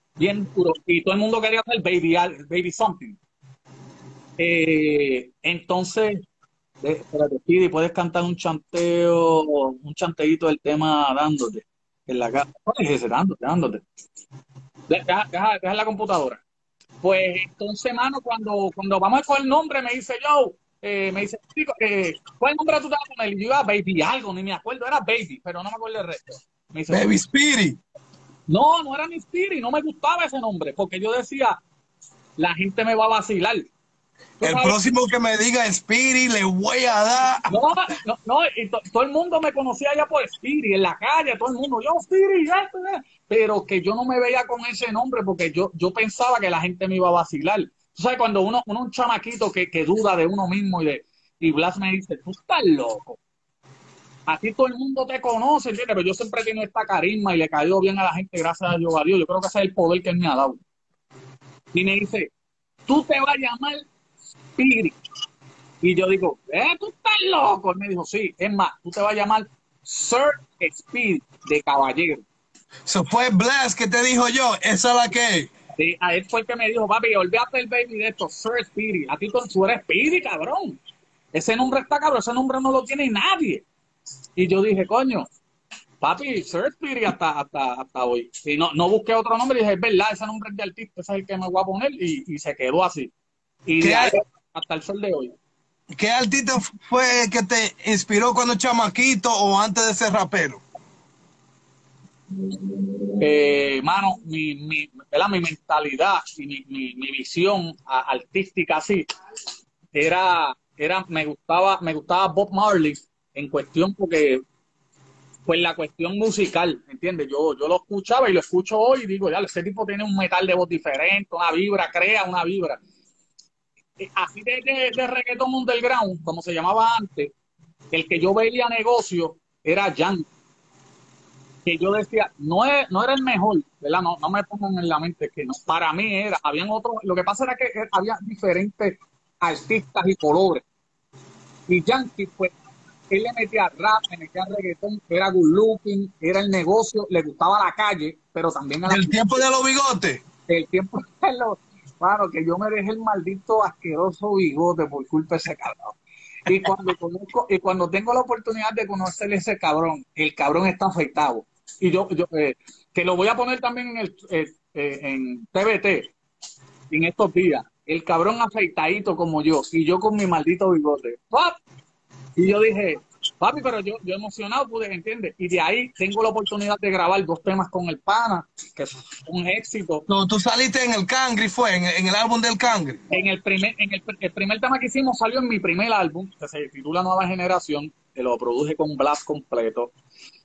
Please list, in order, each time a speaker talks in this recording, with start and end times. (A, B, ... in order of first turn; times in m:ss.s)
0:00.2-0:03.2 A
0:04.4-0:06.2 A
0:06.8-0:13.8 A
0:14.9-0:16.4 A
0:17.0-0:27.1 A
0:26.9-0:27.8 B
0:28.5-0:31.6 A
0:32.4-0:33.7 A
0:34.4-0:37.5 B
0:34.4-0:34.8 A
0:37.5-0:53.2 A
0:54.3-1:00.6 A
1:01.7-1:02.3 A
1:02.9-1:03.9 A
1:04.6-1:05.0 A
1:05.8-1:12.2 A
1:12.9-1:15.5 B
1:15.8-1:20.8 A
1:21.3-1:23.6 A
1:24.4-1:25.3 A
1:26.0-1:33.1 A
1:33.7-1:35.3 A
1:33.8-1:34.2 B
1:35.9-1:40.6 B
1:43.2-1:49.1 A
1:49.9-1:54.4 A
1:55.4-2:02.8 A
2:04.0-2:07.3 A
2:07.9-2:10.3 A
2:11.6-2:20.6 A
2:21.7-2:22.6 A
2:23.1-2:29.3 A
2:28.8-2:30.2 B
2:30.5-2:46.1 A
2:46.9-2:51.6 A
2:52.4-3:00.0 A
3:00.1-3:03.0 B
3:03.1-3:09.9 A